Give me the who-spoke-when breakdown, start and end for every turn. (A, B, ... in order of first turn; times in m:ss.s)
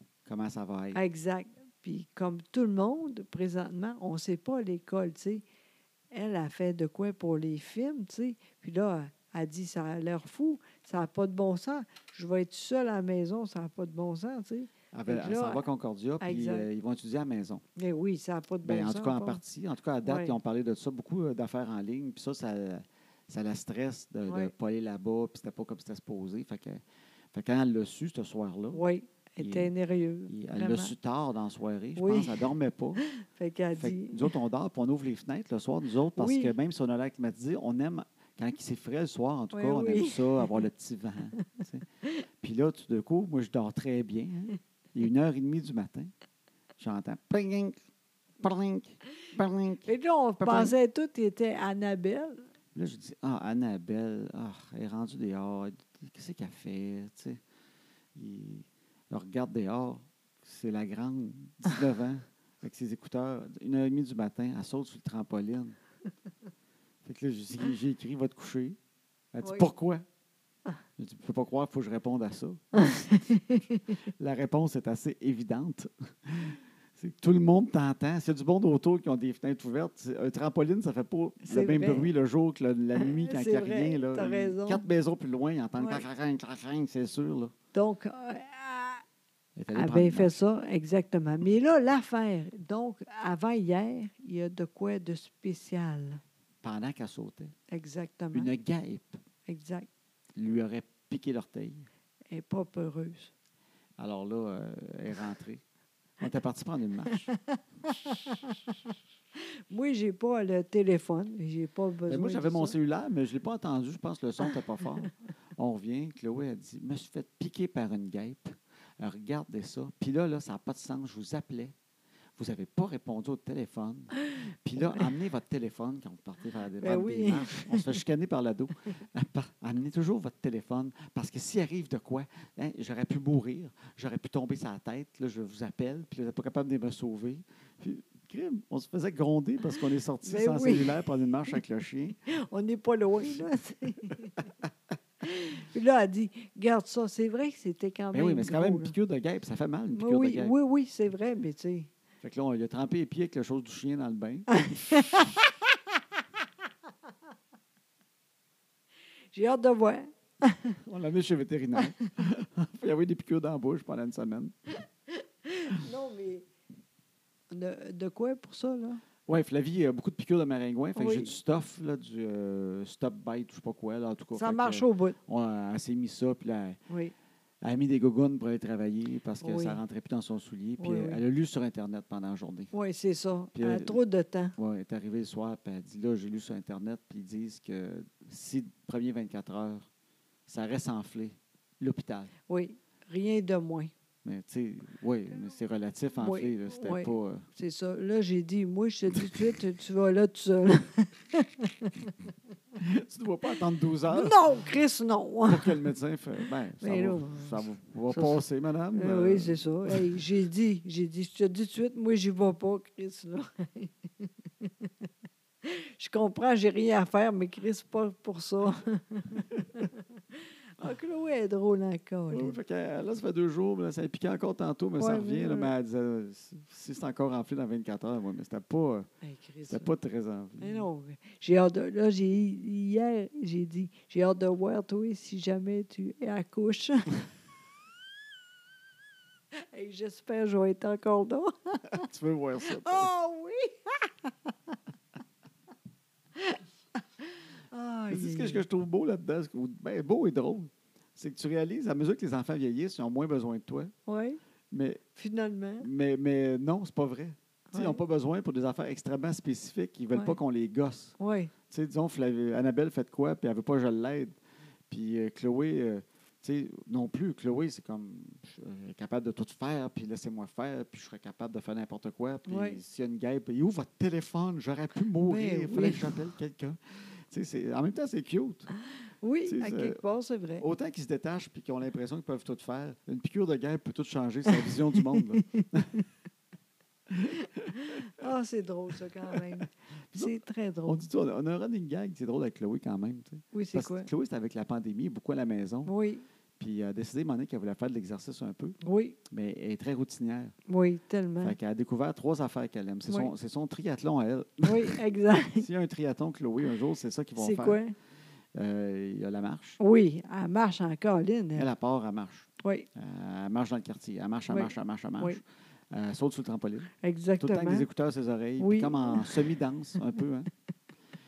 0:00.2-0:01.0 A
0:00.9-0:05.4 B
0:06.1-0:15.6 B
0:14.9-0:17.6 A
0:16.2-0:16.7 B
0:17.8-0:19.4 B
0:18.6-0:26.8 A
0:20.0-0:20.4 B
0:24.3-0:24.5 B
0:27.3-0:28.8 A
0:28.7-0:30.9 B
0:29.4-0:29.7 A
0:30.3-0:33.0 A
0:32.0-0:32.4 B
0:33.2-0:34.3 B
0:33.8-0:41.8 A
0:36.2-0:36.5 B
0:39.5-0:40.6 B
0:42.4-0:46.1 A
0:46.8-0:47.7 A
0:48.4-0:49.8 A
0:49.8-0:52.4 B
0:50.4-0:50.7 A
0:52.7-0:57.4 A
0:58.1-1:05.8 A
1:07.0-1:08.8 A
1:09.3-1:10.0 A
1:09.4-1:09.7 B
1:11.0-1:12.6 A
1:12.7-1:13.8 B
1:14.2-1:27.5 A
1:21.4-1:22.1 B
1:23.0-1:24.8 B
1:25.8-1:26.0 B
1:27.7-1:29.0 B
1:29.6-1:30.3 A
1:29.7-1:36.2 B
1:36.6-1:37.5 A
1:37.7-1:38.5 B
1:38.3-1:39.2 A
1:39.4-1:39.9 B
1:40.4-1:41.9 A
1:42.3-1:43.3 B
1:44.0-1:45.6 A
1:46.2-1:47.3 A
1:47.1-1:48.8 B
1:49.7-1:52.8 B
1:52.1-2:01.7 A
2:02.4-2:22.2 A
2:06.8-2:08.0 B
2:20.2-2:21.0 B
2:22.2-2:24.4 B
2:25.2-2:28.9 B
2:28.1-2:30.5 A
2:29.9-2:31.9 B
2:32.2-2:34.6 A
2:34.5-2:35.5 B
2:39.3-2:40.8 B
2:40.8-2:44.5 A
2:45.5-2:46.4 B
2:47.5-2:49.0 B
2:49.3-2:56.8 A
2:51.0-2:51.3 B
2:54.3-2:55.2 B
2:57.6-3:02.7 A
2:59.4-2:59.8 B
3:00.8-3:01.2 B
3:02.7-3:04.5 B
3:03.5-3:04.0 A
3:04.6-3:09.9 A
3:10.5-3:12.3 A
3:12.5-3:13.9 B
3:14.2-3:17.4 A
3:16.2-3:22.1 B
3:22.8-3:24.4 A
3:24.1-3:25.8 B
3:25.5-3:30.2 A
3:26.8-3:28.4 B
3:28.9-3:34.9 B
3:35.6-3:40.0 B
3:40.8-3:42.6 B
3:42.3-3:49.1 A
3:45.0-3:45.7 B
3:49.2-3:49.9 B
3:49.7-3:50.9 A
3:50.6-3:57.2 B
3:59.7-4:02.0 B
4:01.9-4:03.1 A
4:02.7-4:04.7 B
4:07.7-4:08.6 B
4:08.1-4:13.9 A
4:14.1-4:14.4 B
4:14.7-4:15.0 A
4:15.2-4:15.9 B
4:15.8-4:21.1 A
4:17.7-4:18.0 B
4:21.2-4:21.5 B
4:21.7-4:24.4 A
4:24.9-4:38.7 A
4:32.5-4:32.8 B
4:35.2-4:36.2 B
4:39.2-4:40.6 B
4:39.4-4:40.0 A
4:40.6-4:46.0 A
4:44.5-4:46.0 B
4:47.1-4:47.7 A
4:47.7-4:51.0 B
4:49.3-4:50.3 A
4:50.9-4:55.9 A
4:53.5-4:54.1 B
4:55.8-4:56.2 B
4:56.6-4:58.8 A
4:58.8-4:59.2 B
4:59.3-5:00.5 A
5:00.7-5:01.6 B
5:01.4-5:05.0 A
5:04.6-5:05.7 B
5:05.6-5:07.8 A
5:07.4-5:07.9 B
5:08.5-5:09.8 A
5:09.8-5:11.7 B
5:11.6-5:20.5 A
5:14.5-5:15.4 B
5:17.0-5:17.9 B
5:18.6-5:19.4 B